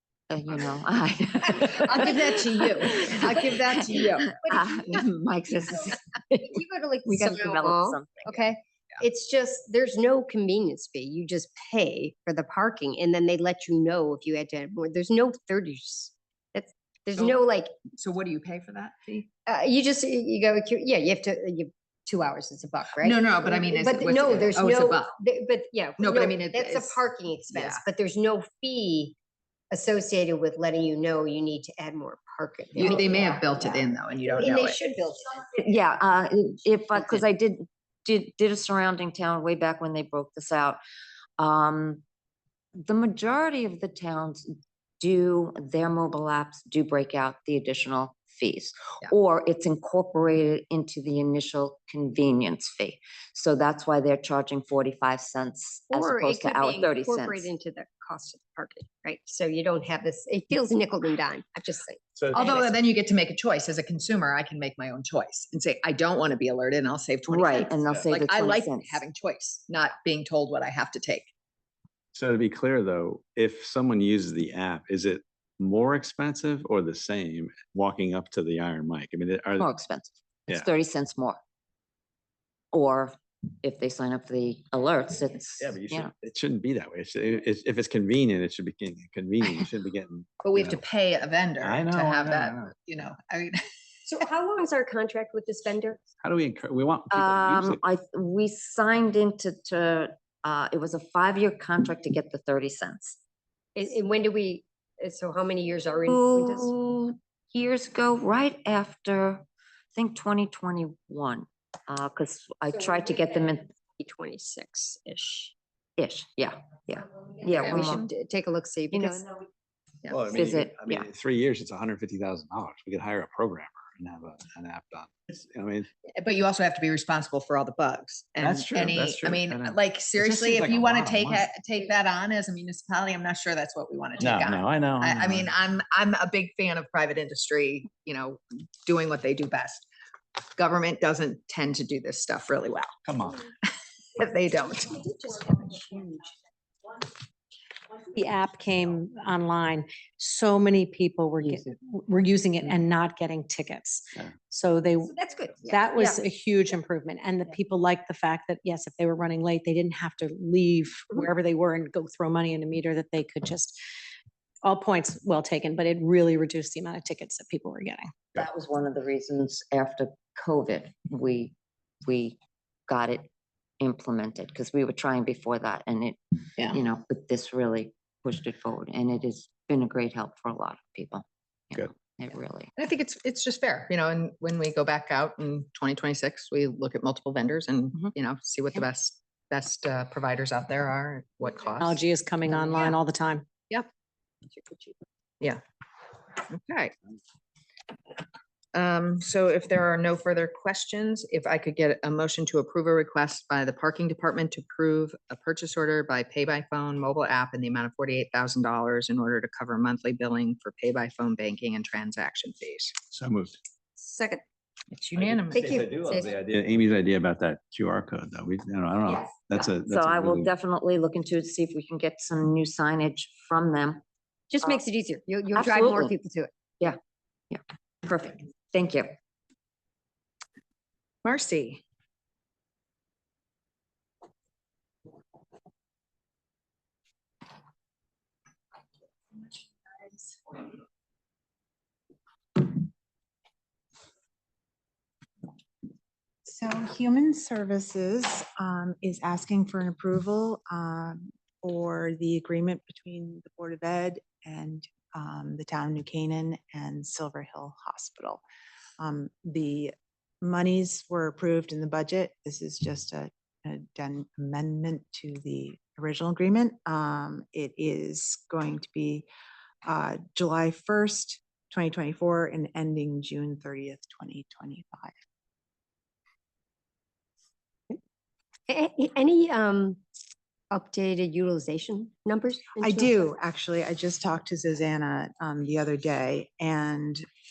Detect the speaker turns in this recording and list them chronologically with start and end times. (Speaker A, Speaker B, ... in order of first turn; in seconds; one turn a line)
Speaker A: 0.3-6.4
Speaker B: 1.8-4.3
Speaker C: 2.0-2.3
Speaker C: 4.4-5.0
Speaker C: 5.7-17.8
Speaker A: 7.0-8.4
Speaker B: 17.2-19.3
Speaker C: 19.4-29.1
Speaker B: 23.0-25.2
Speaker B: 26.0-27.9
Speaker C: 29.7-35.8
Speaker B: 32.7-34.8
Speaker A: 35.6-40.8
Speaker A: 41.4-42.0
Speaker A: 42.7-44.5
Speaker A: 45.0-57.5
Speaker C: 55.9-62.6
Speaker D: 62.1-62.6
Speaker B: 62.3-71.3
Speaker A: 67.3-69.0
Speaker D: 67.8-68.1
Speaker D: 72.1-79.7
Speaker A: 79.6-81.4
Speaker A: 82.7-86.1
Speaker D: 85.6-90.8
Speaker B: 90.4-93.6
Speaker D: 91.6-92.7
Speaker C: 94.1-96.0
Speaker D: 96.2-97.8
Speaker A: 97.1-103.2
Speaker C: 103.7-106.7
Speaker A: 106.1-113.7
Speaker C: 114.0-115.5
Speaker A: 116.0-118.0
Speaker C: 117.4-119.3
Speaker A: 118.9-119.3
Speaker D: 120.1-125.9
Speaker A: 120.2-121.0
Speaker B: 126.2-139.9
Speaker D: 128.4-131.4
Speaker D: 134.2-135.5
Speaker B: 140.6-142.9
Speaker D: 143.1-143.4
Speaker B: 144.2-146.2
Speaker E: 148.0-163.8
Speaker C: 155.1-156.2
Speaker E: 164.6-168.2
Speaker A: 168.3-172.4
Speaker A: 172.9-173.3
Speaker A: 173.8-182.7
Speaker B: 182.8-192.0
Speaker E: 191.8-193.5
Speaker C: 192.5-192.9
Speaker C: 194.5-195.0
Speaker B: 196.4-196.9
Speaker B: 198.7-212.9
Speaker D: 213.1-213.6
Speaker C: 214.0-214.4
Speaker B: 214.9-215.8
Speaker D: 215.2-220.5
Speaker C: 215.5-216.3
Speaker A: 219.8-224.0
Speaker C: 224.5-226.5
Speaker A: 225.5-226.1
Speaker A: 227.5-229.1
Speaker B: 231.2-231.8
Speaker F: 239.4-240.6
Speaker F: 246.4-258.4
Speaker F: 259.0-269.3
Speaker F: 269.9-275.1
Speaker C: 278.7-280.0
Speaker C: 280.7-283.3
Speaker F: 282.8-287.2